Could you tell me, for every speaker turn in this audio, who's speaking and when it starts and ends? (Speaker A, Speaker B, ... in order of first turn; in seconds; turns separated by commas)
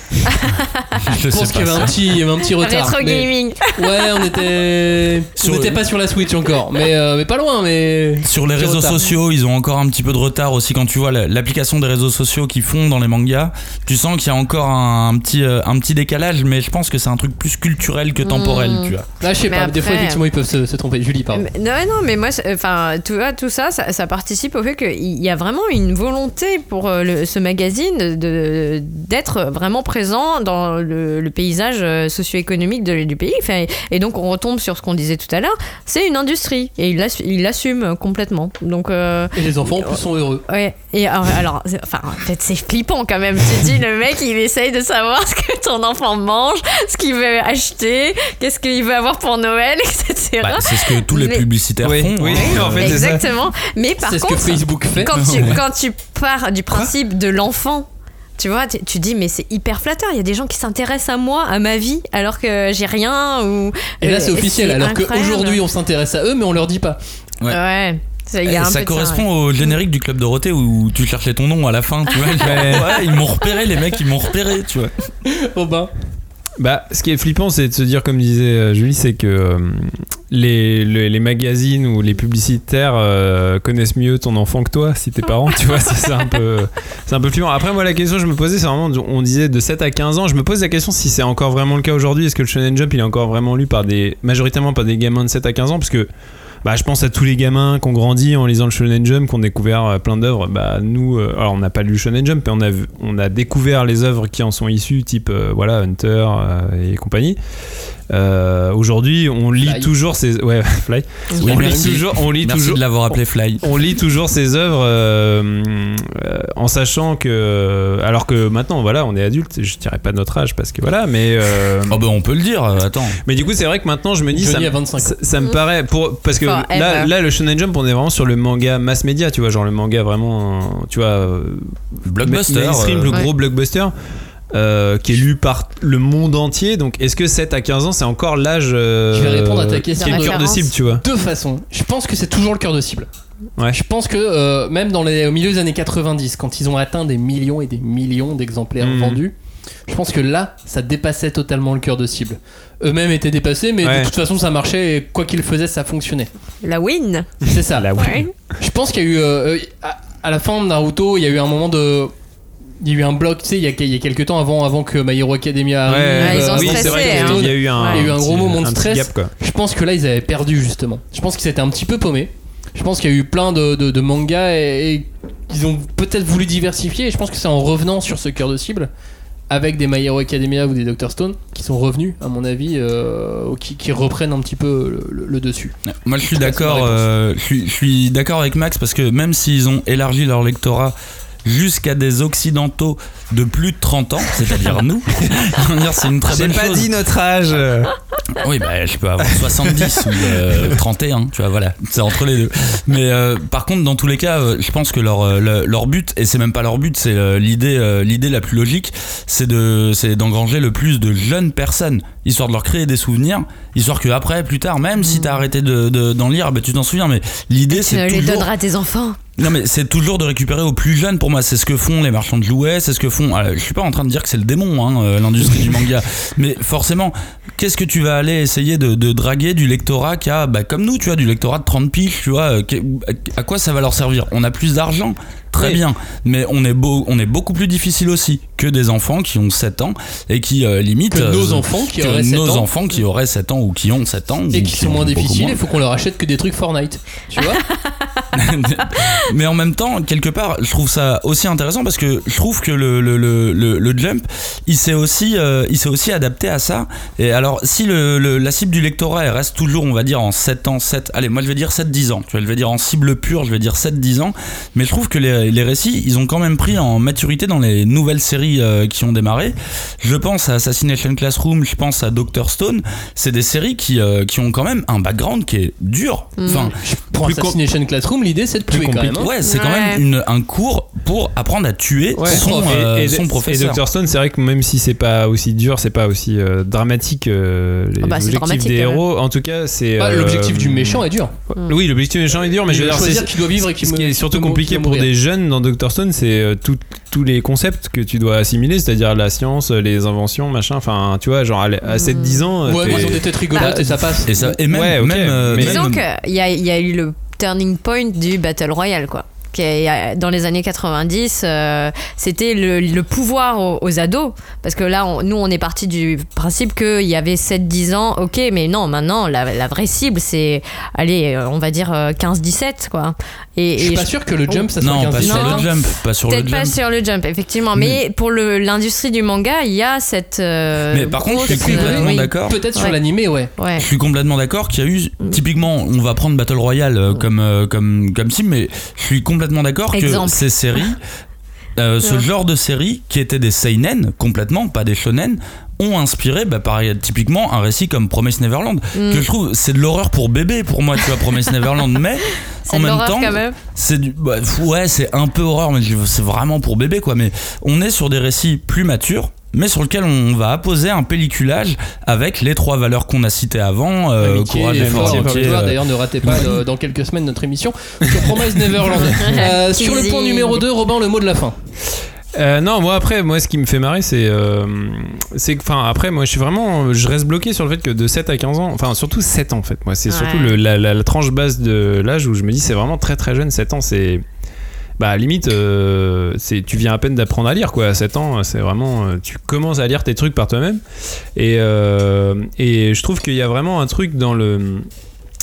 Speaker A: 1.0-1.9, Speaker B: 1.3-9.0, Speaker C: 2.5-4.3, Speaker A: 5.4-5.8, Speaker A: 8.2-19.1, Speaker C: 18.2-20.2, Speaker B: 19.2-21.4, Speaker C: 21.3-51.5, Speaker B: 39.4-40.4, Speaker A: 50.4-53.1, Speaker D: 51.8-53.2, Speaker C: 52.4-65.6, Speaker B: 54.0-55.4, Speaker A: 55.1-55.6, Speaker B: 64.0-67.0, Speaker C: 67.5-69.8, Speaker A: 68.4-74.9, Speaker C: 72.1-73.0, Speaker D: 72.4-73.0, Speaker B: 75.2-75.9, Speaker D: 76.6-96.1, Speaker D: 96.6-107.4, Speaker D: 108.1-122.0, Speaker B: 109.6-109.9, Speaker B: 111.4-112.0, Speaker A: 111.4-113.7, Speaker A: 121.9-123.2, Speaker D: 123.2-133.9, Speaker B: 124.3-125.2, Speaker C: 126.4-127.1, Speaker A: 132.1-133.2, Speaker D: 134.5-141.0, Speaker B: 139.1-143.1, Speaker C: 140.0-140.7, Speaker B: 143.7-149.3, Speaker D: 148.8-149.2, Speaker B: 149.9-156.3, Speaker D: 153.8-154.1, Speaker C: 156.6-157.4, Speaker B: 157.5-157.9, Speaker D: 157.8-158.3, Speaker C: 158.0-158.3, Speaker B: 158.6-162.1, Speaker B: 162.8-178.9, Speaker D: 165.9-169.3, Speaker C: 166.2-168.0, Speaker B: 179.5-185.7, Speaker A: 185.9-196.9, Speaker B: 186.3-187.1, Speaker D: 196.3-197.9, Speaker A: 198.4-218.5, Speaker D: 199.3-200.8, Speaker C: 215.0-215.4, Speaker C: 217.7-219.2, Speaker A: 219.4-245.6, Speaker B: 241.1-242.7, Speaker B: 244.5-247.6, Speaker C: 247.4-248.3, Speaker A: 248.3-276.7, Speaker C: 276.4-276.7, Speaker B: 276.5-279.3, Speaker D: 277.2-277.6, Speaker D: 278.7-279.2, Speaker A: 279.1-283.8, Speaker C: 279.4-280.0, Speaker D: 282.2-291.0, Speaker B: 282.3-282.8, Speaker C: 288.0-289.0, Speaker B: 290.0-291.3, Speaker D: 291.6-305.8, Speaker B: 292.7-295.1, Speaker C: 301.9-302.8, Speaker B: 302.6-304.5, Speaker A: 304.3-306.0, Speaker C: 305.6-325.8, Speaker B: 323.8-325.7, Speaker A: 324.8-326.8, Speaker C: 326.3-333.0, Speaker A: 330.9-332.6, Speaker B: 331.4-333.5, Speaker C: 333.5-333.9, Speaker A: 333.8-341.0, Speaker C: 339.9-340.9, Speaker A: 341.8-366.5, Speaker C: 348.9-349.2, Speaker C: 352.7-353.6, Speaker B: 364.2-371.6, Speaker D: 364.8-365.7, Speaker D: 366.2-366.5, Speaker D: 368.1-369.4, Speaker C: 369.2-370.6, Speaker D: 372.3-384.2, Speaker C: 380.1-380.6, Speaker D: 385.0-390.8, Speaker D: 391.4-394.9